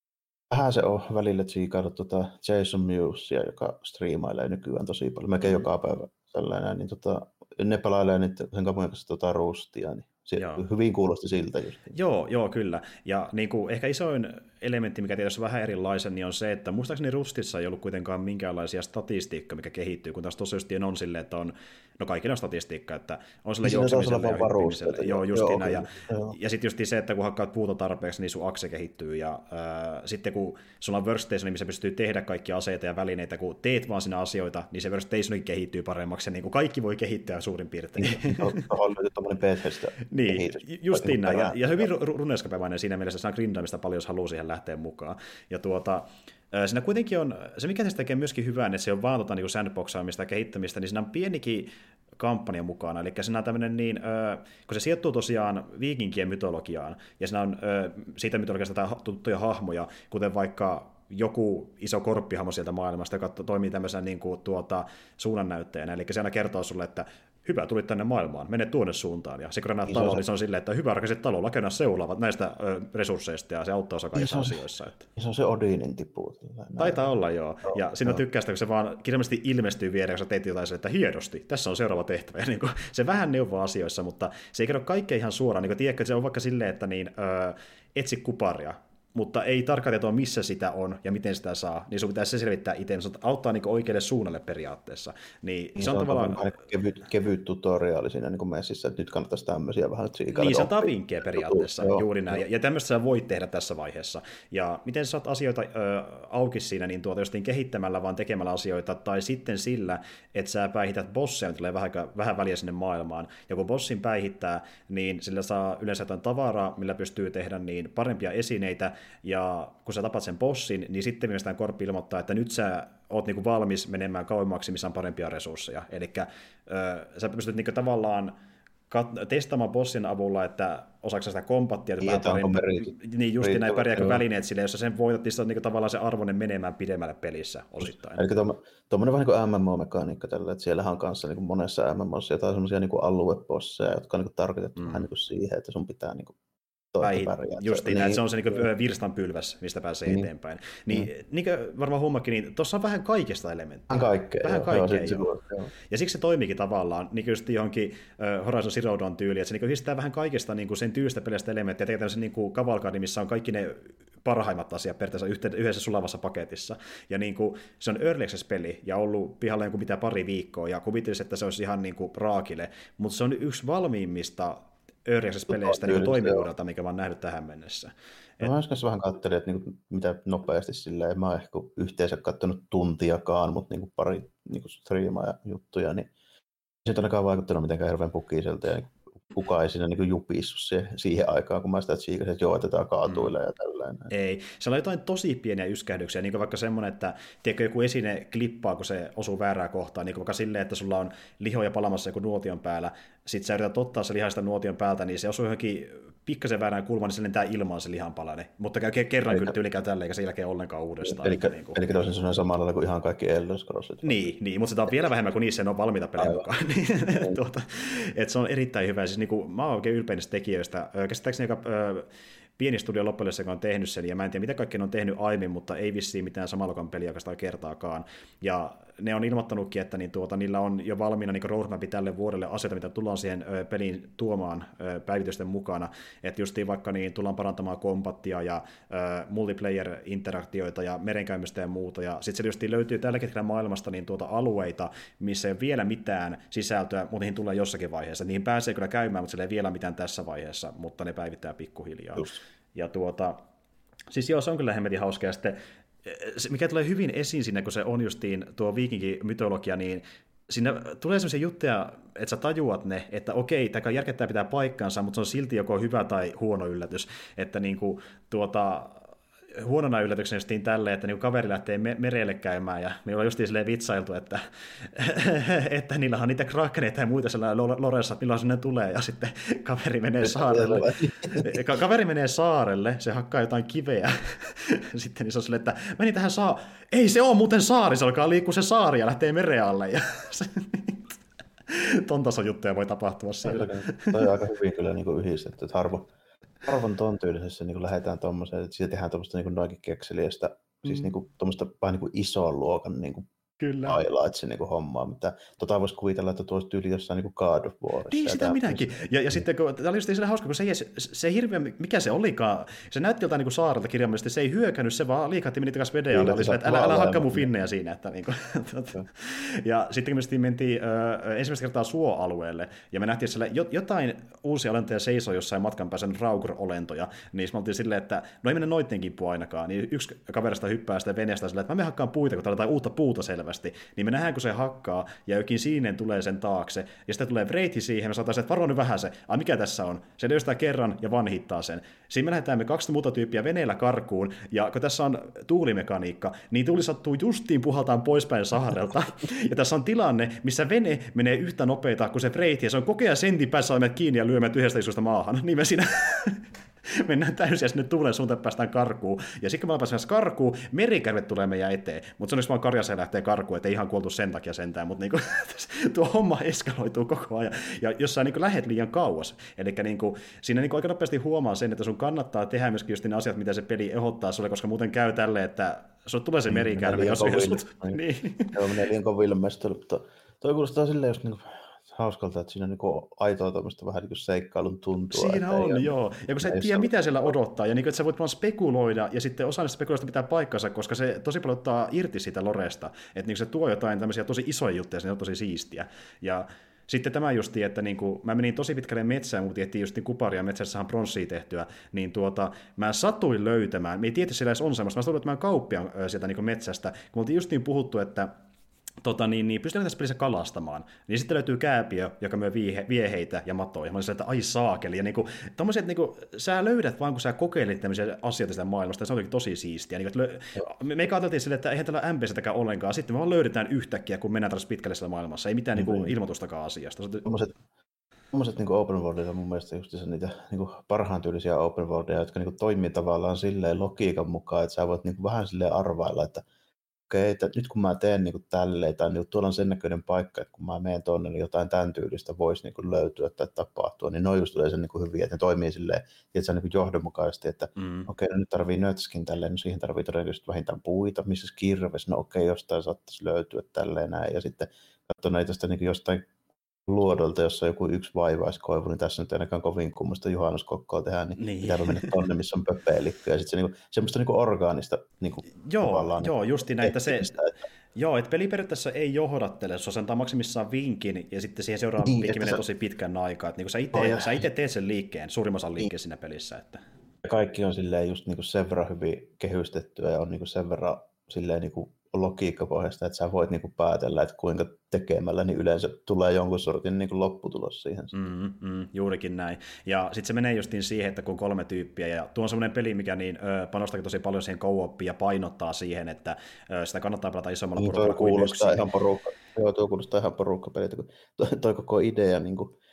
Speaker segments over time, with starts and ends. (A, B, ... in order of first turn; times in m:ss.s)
0:00.5-0:11.9 A
0:10.4-0:10.6 B
0:11.9-0:38.7 B
0:23.6-0:26.4 A
0:38.0-0:41.8 A
0:40.1-1:15.1 B
1:09.9-1:10.2 A
1:14.1-1:14.6 A
1:15.2-1:17.1 A
1:16.8-1:36.5 B
1:17.6-1:18.2 A
1:35.8-1:42.4 A
1:40.3-2:08.3 B
2:08.9-2:18.2 B
2:12.0-2:14.2 A
2:18.2-2:26.4 A
2:24.8-2:25.1 B
2:26.9-2:28.6 A
2:27.0-2:35.3 B
2:33.9-2:35.7 A
2:35.9-2:58.5 B
2:55.5-2:56.5 A
2:58.4-3:06.1 A
3:06.8-3:14.1 A
3:13.1-3:13.3 B
3:14.1-3:31.8 B
3:29.3-3:29.5 A
3:31.0-3:34.2 A
3:34.0-4:13.4 B
3:36.2-3:36.4 A
3:37.1-3:37.4 A
4:14.1-4:51.1 B
4:40.2-4:41.6 A
4:51.7-4:54.3 B
4:53.4-4:56.1 A
4:56.6-5:03.2 A
5:03.6-5:04.0 B
5:03.8-5:09.4 A
5:08.1-6:18.6 B
5:16.1-5:17.5 A
6:16.5-6:25.9 A
6:25.1-6:48.3 B
6:26.4-6:26.9 A
6:49.0-7:07.2 B
7:05.8-7:06.1 A
7:07.2-7:07.5 A
7:08.3-7:16.4 A
7:17.1-7:36.3 A
7:27.8-7:28.1 B
7:36.8-7:47.5 A
7:41.4-7:42.2 B
7:45.6-7:47.3 B
7:48.0-7:56.8 B
7:52.0-7:52.6 A
7:53.9-7:54.4 A
7:57.2-8:08.1 A
8:08.1-8:18.8 B
8:17.8-8:22.8 A